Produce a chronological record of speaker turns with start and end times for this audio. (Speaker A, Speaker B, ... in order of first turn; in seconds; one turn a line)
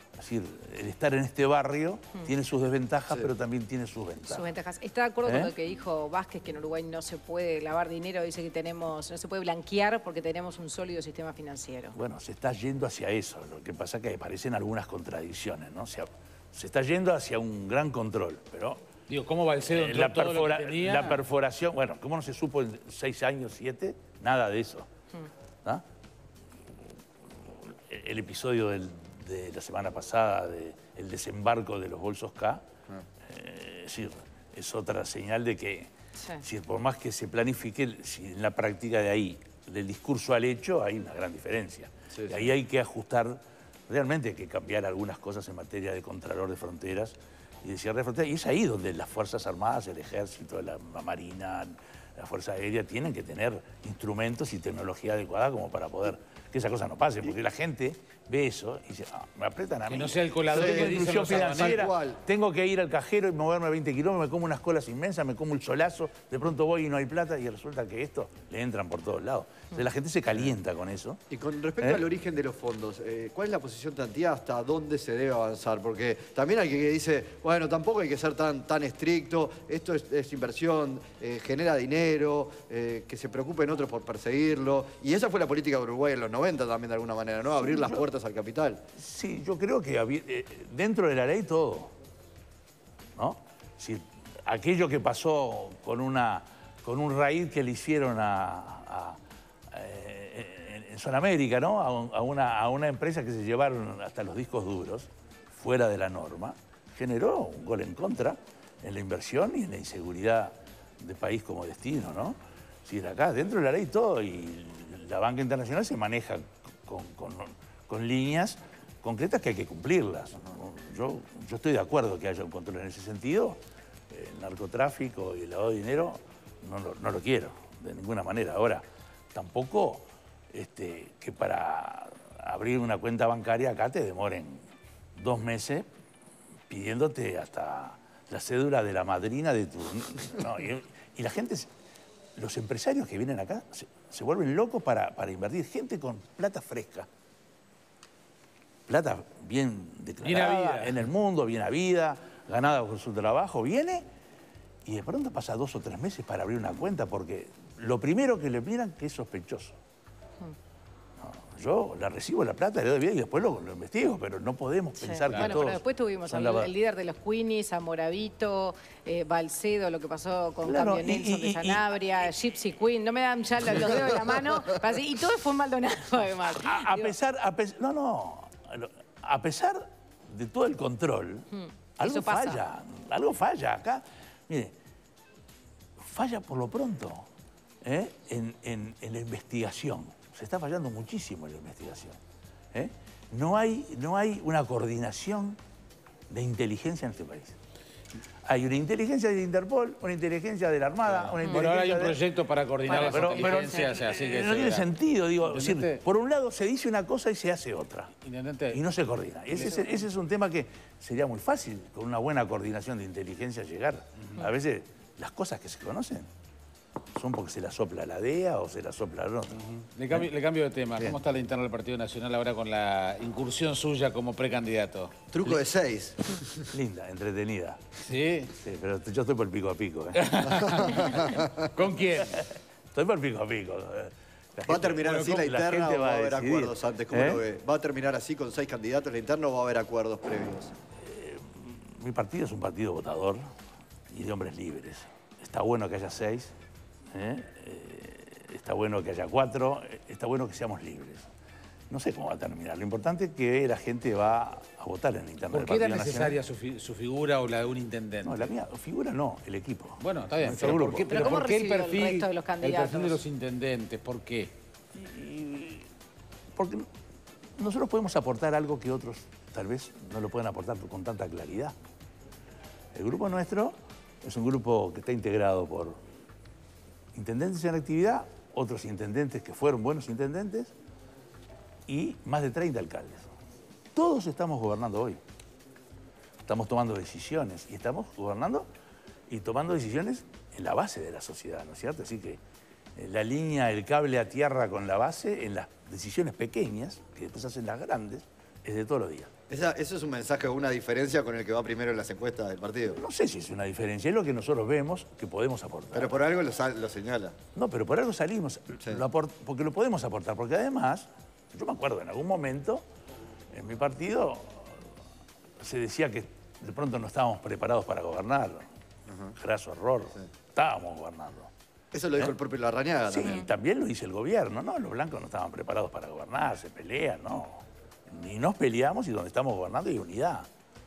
Speaker A: 0.2-4.5
Speaker B: 4.3-12.0
Speaker A: 5.2-5.5
Speaker A: 11.9-18.8
Speaker C: 19.1-21.2
Speaker A: 19.7-24.9
Speaker A: 27.4-32.7
Speaker A: 33.2-71.2
Speaker D: 42.1-42.5
Speaker C: 59.9-61.9
Speaker D: 60.5-62.2
Speaker D: 71.3-88.8
Speaker A: 71.8-72.0
Speaker A: 87.5-88.0
Speaker A: 89.0-91.9
Speaker A: 93.2-123.6
Speaker A: 124.1-134.6
Speaker A: 135.2-135.9
Speaker A: 136.7-141.7
Speaker A: 142.4-147.1
Speaker A: 148.9-154.0
Speaker C: 150.2-151.0
Speaker A: 154.8-159.8
Speaker A: 161.2-166.7
Speaker B: 165.0-177.1
Speaker C: 165.3-165.6
Speaker A: 170.6-172.0
Speaker A: 176.6-181.5
Speaker B: 181.5-182.6
Speaker A: 182.0-184.7
Speaker A: 186.0-187.3
Speaker A: 187.8-192.2
Speaker A: 192.7-195.6
Speaker A: 196.3-197.6
Speaker A: 198.4-202.2
Speaker C: 201.1-204.9
Speaker B: 202.9-203.8
Speaker A: 202.9-208.1
Speaker C: 205.4-206.0
Speaker C: 208.2-208.8
Speaker A: 208.7-216.3
Speaker A: 217.2-219.6
Speaker C: 219.6-225.5
Speaker D: 225.3-226.7
Speaker A: 226.7-227.9
Speaker C: 228.0-228.5
Speaker A: 228.5-231.1
Speaker C: 230.2-232.4
Speaker D: 230.8-231.6
Speaker A: 232.2-237.4
Speaker D: 234.7-240.8
Speaker C: 235.0-235.4
Speaker A: 241.0-243.4
Speaker A: 244.1-246.6
Speaker A: 247.1-251.3
Speaker A: 251.9-256.4
Speaker C: 255.5-258.5
Speaker A: 258.2-261.3
Speaker C: 260.0-264.5
Speaker B: 260.7-263.2
Speaker A: 264.9-265.9
Speaker A: 266.6-266.9
Speaker A: 267.6-271.8
Speaker A: 272.9-276.0
Speaker A: 277.1-280.7
Speaker A: 281.9-283.3
Speaker A: 283.9-285.2
Speaker A: 286.5-288.7
Speaker A: 289.3-292.4
Speaker A: 293.0-299.3
Speaker D: 299.5-303.0
Speaker A: 302.9-306.3
Speaker D: 305.9-307.4
Speaker A: 307.6-312.8
Speaker A: 313.5-314.9
Speaker A: 315.6-318.7
Speaker D: 319.1-319.3
Speaker A: 319.4-321.5
Speaker D: 321.9-323.5
Speaker A: 323.1-330.5